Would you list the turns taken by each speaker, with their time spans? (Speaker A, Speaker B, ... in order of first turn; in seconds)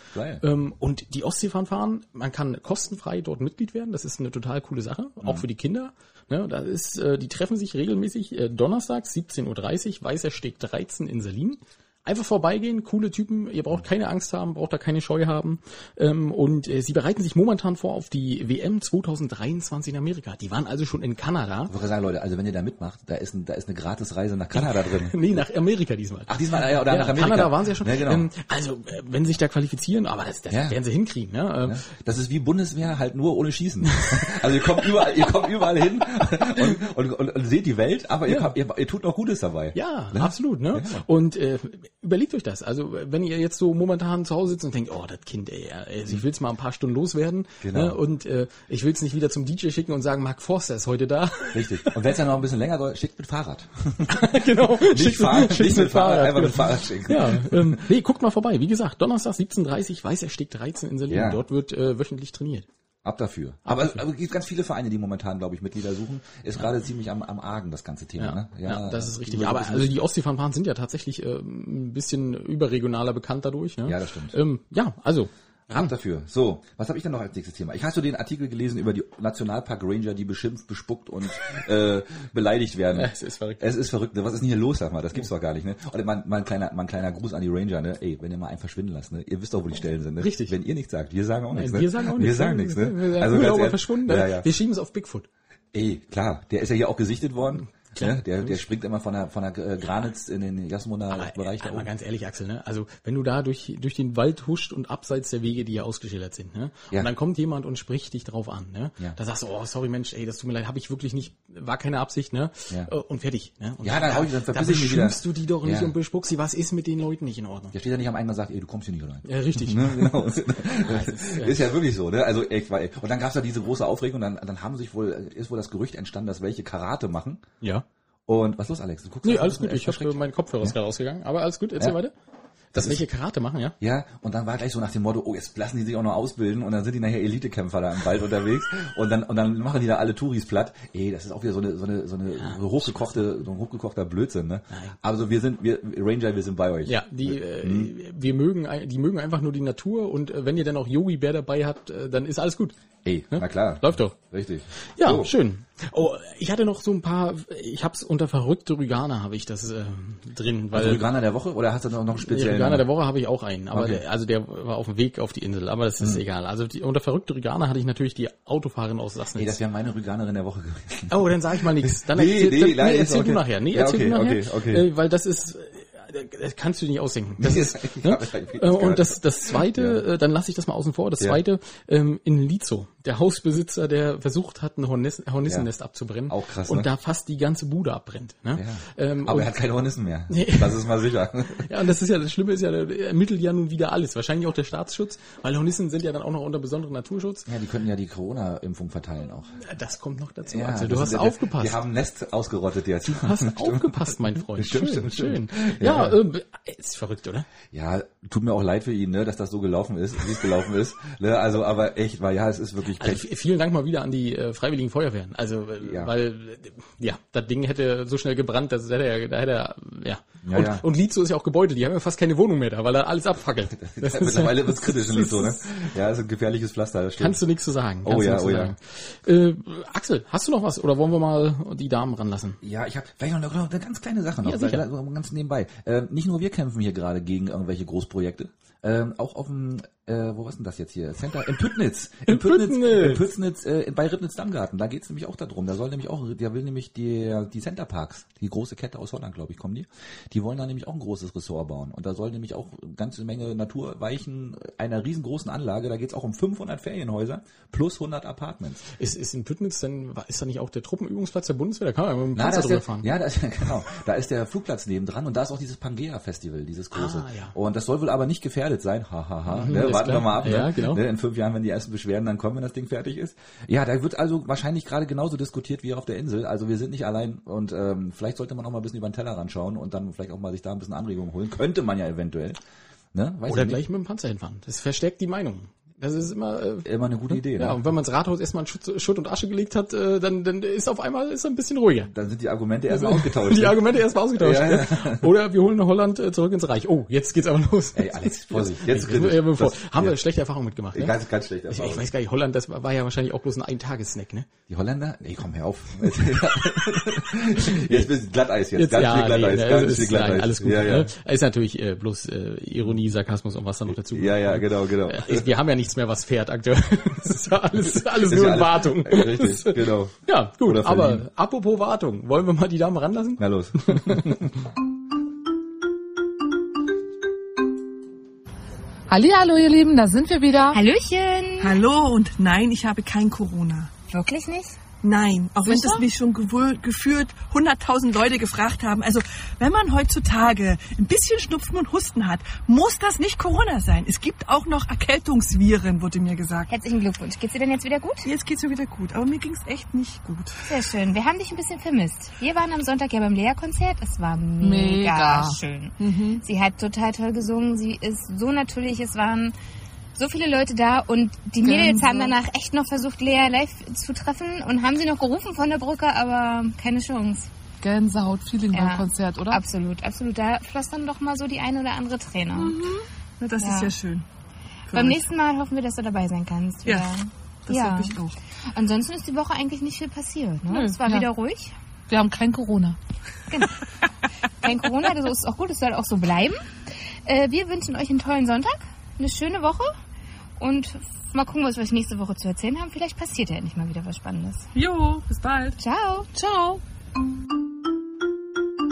Speaker A: 0.1-0.4, 21.7-25.4, 26.3-28.3, 30.5-30.8, 31.6-41.0, 47.6-48.0, 51.5-57.9, 61.1-61.4, 63.0-70.0, 73.8-74.4, 75.7-94.5, 95.7-101.9, 113.8-115.9, 117.7-127.5, 128.3-130.8, 133.8-147.9, 153.0-155.3, 160.7-162.9, 163.7-164.0, 169.4-174.9, 177.4-180.0, 186.3-186.9, 188.6-191.7, 197.5-199.6, 200.5-206.2, 207.7-213.2, 215.8-216.1, 220.4-220.8, 223.8-227.4, 228.0-228.7, 232.6-258.9, 262.3-282.6, 283.1-283.8, 286.8-287.8, 292.1-293.8, 294.4-295.3, 297.9-300.2, 300.9-302.1, 304.7-311.1, 314.0-315.5, 317.9-321.2, 323.4-324.6
Speaker B: 0.4-21.7, 24.5-31.8, 33.9-35.0, 38.3-38.5, 39.7-52.0, 54.1-62.7, 63.7-64.0, 68.2-75.9, 82.9-83.6, 90.2-90.6, 91.5-95.3, 97.9-98.6, 101.1-117.7, 119.2-121.7, 127.6-127.9, 129.2-132.1, 132.7-133.8, 146.9-152.8, 153.3-154.2, 155.0-161.1, 162.2-169.6, 171.1-189.5, 190.3-197.5, 199.6-201.8, 203.0-207.5, 212.9-225.7, 227.2-232.6, 234.4-234.9, 242.3-243.3, 259.0-263.1, 266.9-267.6, 269.5-271.0, 283.5-292.1, 292.9-304.5, 307.6-308.1, 308.8-324.4
Speaker C: 329.1-330.8, 335.6-336.1, 354.6-355.6, 361.6-362.4, 367.8-369.6, 380.7-381.3, 382.1-383.0
Speaker D: 330.7-331.8, 334.1-334.8, 346.7-348.3, 350.7-359.5, 360.2-367.5, 368.7-372.8, 373.6-373.9, 374.9-378.2, 378.7-381.8, 383.5-383.8, 384.6-386.7, 387.3-389.9, 390.6-394.7, 395.8-396.3
Speaker E: 331.6-333.9, 335.0-346.7, 348.2-350.7, 356.0-356.4, 372.6-374.2, 374.9-375.3, 376.9-377.1, 377.7-378.3, 394.8-395.8